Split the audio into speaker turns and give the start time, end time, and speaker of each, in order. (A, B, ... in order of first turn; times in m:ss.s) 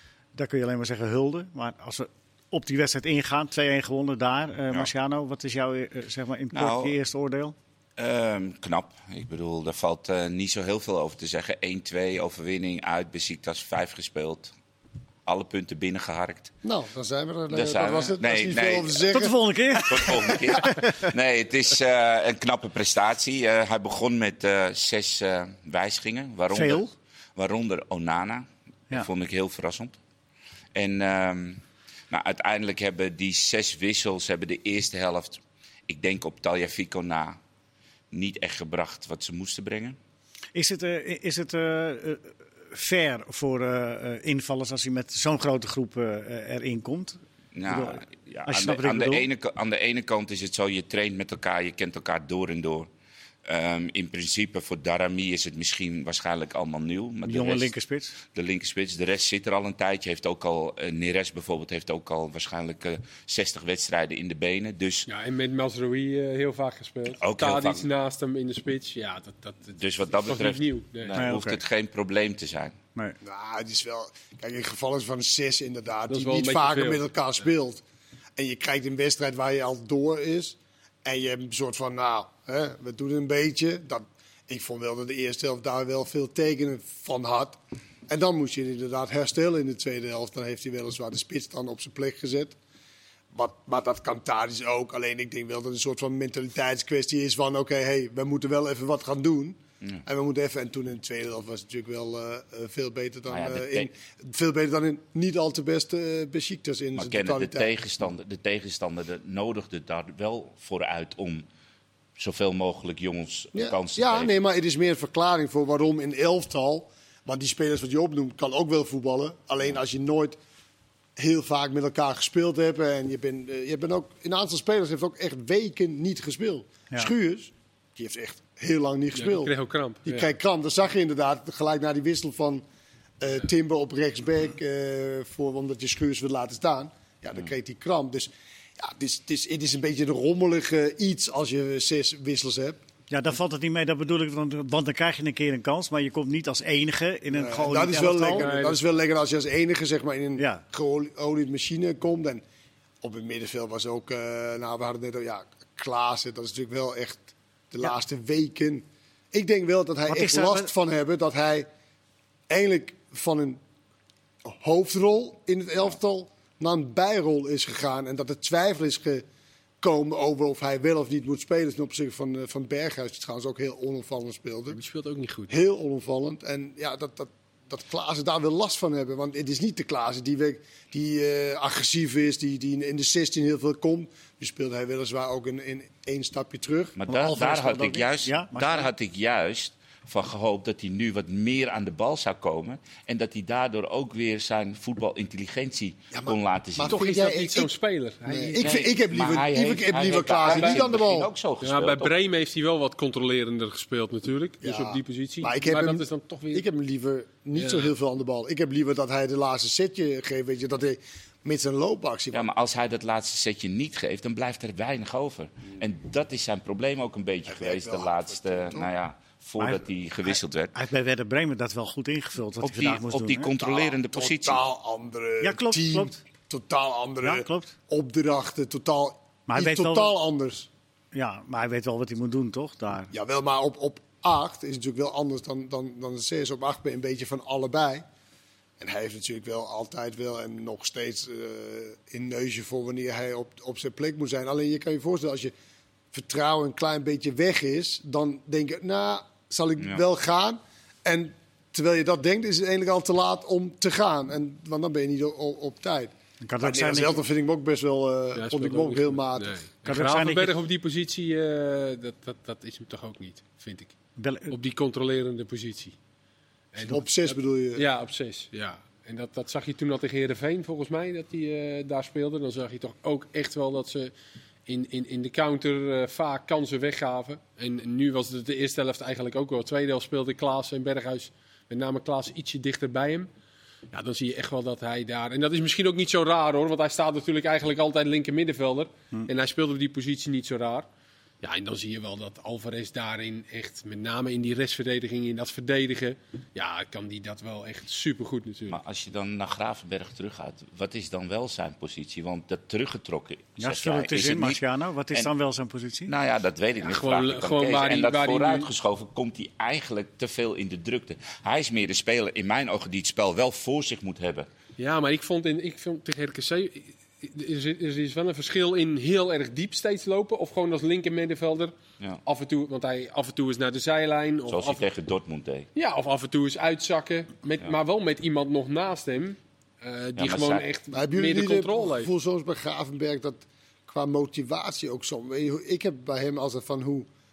0:00.3-0:07.5 A
0:06.5-0:07.0 B
0:08.0-0:14.5 B
0:15.2-0:16.5 B
0:16.6-0:20.3 C
0:17.5-0:19.0 B
0:19.1-0:20.9 A
0:19.9-0:26.8 B
0:26.5-0:26.9 A
0:27.4-0:30.0 B
0:30.7-0:37.4 B
0:38.1-0:40.0 B
0:40.5-0:49.3 A
0:47.5-0:52.9 B
0:53.4-0:57.7 B
0:57.2-0:58.2 A
0:58.2-1:05.1 B
1:05.1-1:11.3 D
1:07.1-1:07.8 B
1:09.8-1:12.8 B
1:11.2-1:11.6 A
1:13.2-1:17.8 C
1:16.1-1:17.0 D
1:18.4-1:32.5 C
1:33.3-1:47.7 C
1:43.3-1:43.9 B
1:47.0-1:51.4 B
1:52.2-1:54.3 B
1:53.5-2:00.4 C
2:01.2-2:09.5 C
2:09.1-2:10.3 D
2:10.0-2:12.6 C
2:13.2-2:22.8 C
2:23.1-2:28.4 A
2:27.3-2:32.4 C
2:28.3-2:28.8 D
2:30.4-2:30.6 A
2:33.0-2:41.7 C
2:40.1-2:40.7 A
2:42.5-2:43.6 C
2:44.4-2:49.2 C
2:49.8-2:54.8 C
2:54.7-2:55.5 D
2:55.5-3:07.0 C
3:07.0-3:17.0 B
3:07.1-3:08.9 A
3:16.1-3:17.7 C
3:16.8-3:18.9 D
3:18.2-3:21.3 C
3:18.6-3:22.1 B
3:20.4-3:20.8 D
3:21.6-3:26.6 D
3:24.6-3:32.5 C
3:27.6-3:27.9 D
3:32.3-3:40.7 B
3:37.5-3:38.9 C
3:39.6-3:43.5 A
3:42.6-3:44.6 B
3:43.6-3:50.7 C
3:45.4-3:46.2 A
3:47.2-3:47.7 A
3:49.5-3:50.1 A
3:51.1-3:53.1 A
3:53.1-3:58.0 C
3:58.8-4:05.5 C
4:06.1-4:19.6 C
4:16.4-4:17.2 A
4:18.3-4:23.9 D
4:19.8-4:20.5 A
4:24.2-4:24.5 A
4:24.5-4:26.0 D
4:26.7-4:34.1 D
4:26.9-4:27.8 C
4:34.7-4:43.3 D
4:43.9-4:50.9 D
4:51.4-4:58.8 D
4:58.7-5:04.6 B
5:03.6-5:06.1 A
5:06.1-5:14.5 B
5:06.8-5:08.7 D
5:14.8-5:21.7 D
5:22.2-5:24.8 D
5:24.5-5:25.7 B
5:25.7-5:32.1 D
5:30.2-5:30.6 B
5:30.9-5:37.1 C